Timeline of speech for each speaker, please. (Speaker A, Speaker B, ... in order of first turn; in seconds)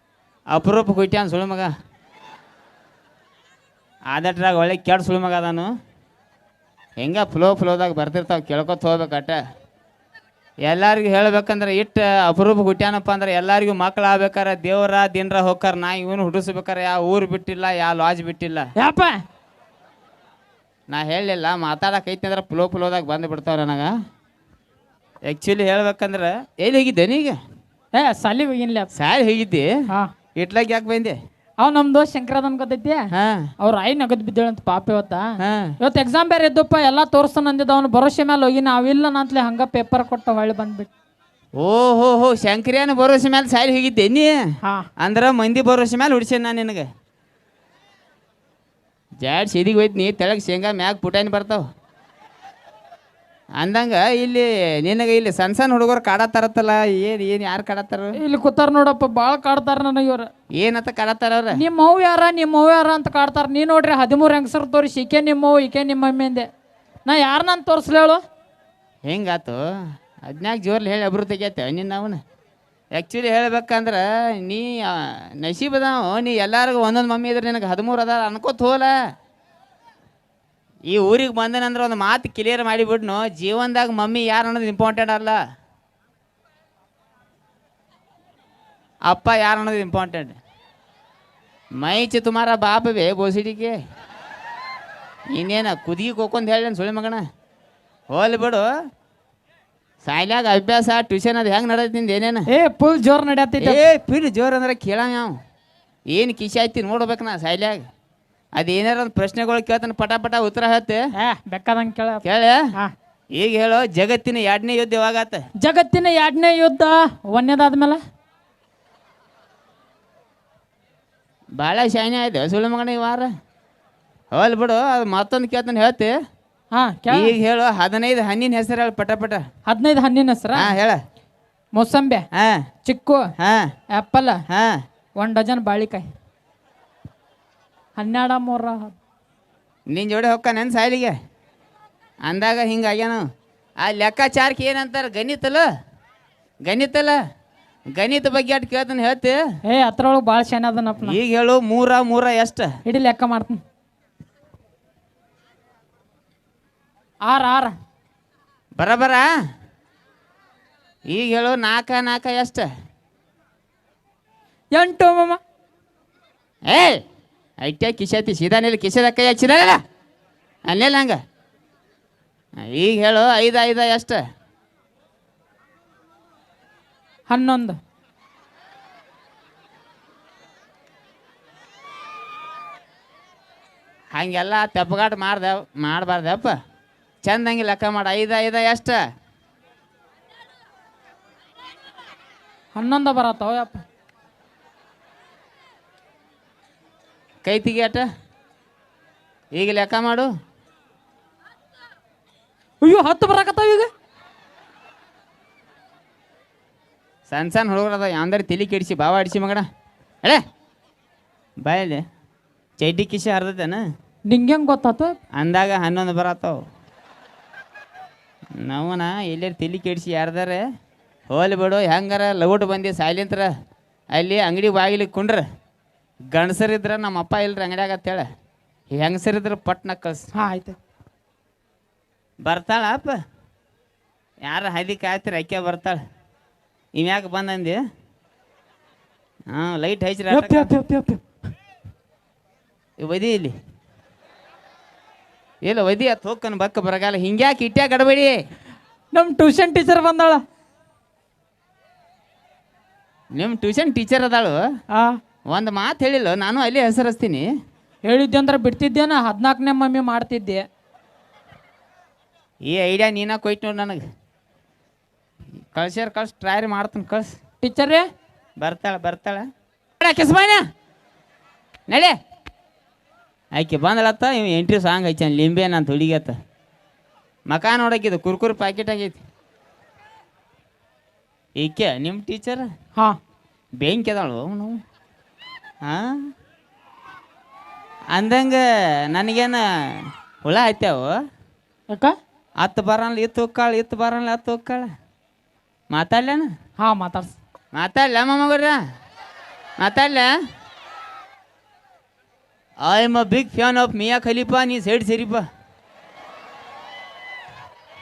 Speaker A: 0.5-1.7, 4.1-5.7, 7.0-9.4, 10.6-18.7, 20.9-23.9, 25.3-27.4, 28.9-29.7, 30.4-31.1, 33.1-33.5, 35.4-35.7, 41.6-44.3, 45.0-46.9, 49.2-51.6, 53.6-58.2, 60.6-61.6, 69.0-69.6, 70.2-72.2, 72.9-78.9, 80.9-85.4, 89.1-90.4, 91.8-93.8, 95.3-97.2, 98.1-98.7, 100.0-102.5, 103.6-105.3, 106.1-107.8, 108.6-111.0, 112.2-112.6, 113.3-115.4, 121.5-123.3, 124.3-126.1, 127.1-129.4, 130.5-131.0, 133.4-133.7, 134.5-134.7, 139.9-141.1, 142.2-143.2, 143.8-145.7, 146.7-147.2, 147.9-149.4, 151.0-152.7, 158.8-159.3, 161.1-162.7, 166.7-167.0, 167.6-169.8, 170.7-171.2, 172.6-174.2, 184.1-186.5, 187.2-189.0, 197.4-198.0, 199.5-200.3, 207.3-209.6, 211.6-212.0, 212.8-213.8, 215.3-216.6, 218.6-220.6, 221.3-223.5, 224.1-225.4, 226.3-228.2, 229.0-230.3, 232.4-233.2, 234.4-236.0, 236.9-237.8, 239.5-240.7, 243.0-243.5, 245.6-248.3, 253.3-254.6, 255.5-257.5, 262.6-264.0, 265.7-267.3, 268.6-269.4, 270.0-270.6, 271.9-272.1, 273.5-276.4, 277.5-279.2, 281.6-282.6, 283.8-284.8, 288.1-288.6, 289.1-291.2, 292.6-294.9, 295.9-296.5, 297.7-298.8, 299.8-300.3, 302.8-305.4
Speaker B: 18.8-19.1, 27.9-28.9, 31.6-33.0, 33.6-35.2, 35.8-40.9, 58.2-60.3, 61.5-66.5, 67.0-68.2, 102.5-103.8, 111.2-112.2, 115.6-118.0, 126.7-127.3, 129.7-130.7, 131.7-132.2, 132.8-133.2, 133.9-134.4, 135.2-136.1, 138.0-138.9, 149.7-151.2, 152.8-153.6, 157.2-157.7, 164.7-165.4, 177.3-177.8, 192.7-193.8, 202.8-203.9, 214.3-215.2, 230.3-230.8, 240.3-241.2, 249.1-250.4, 254.9-255.2, 258.0-260.6, 267.6-268.1, 296.8-297.3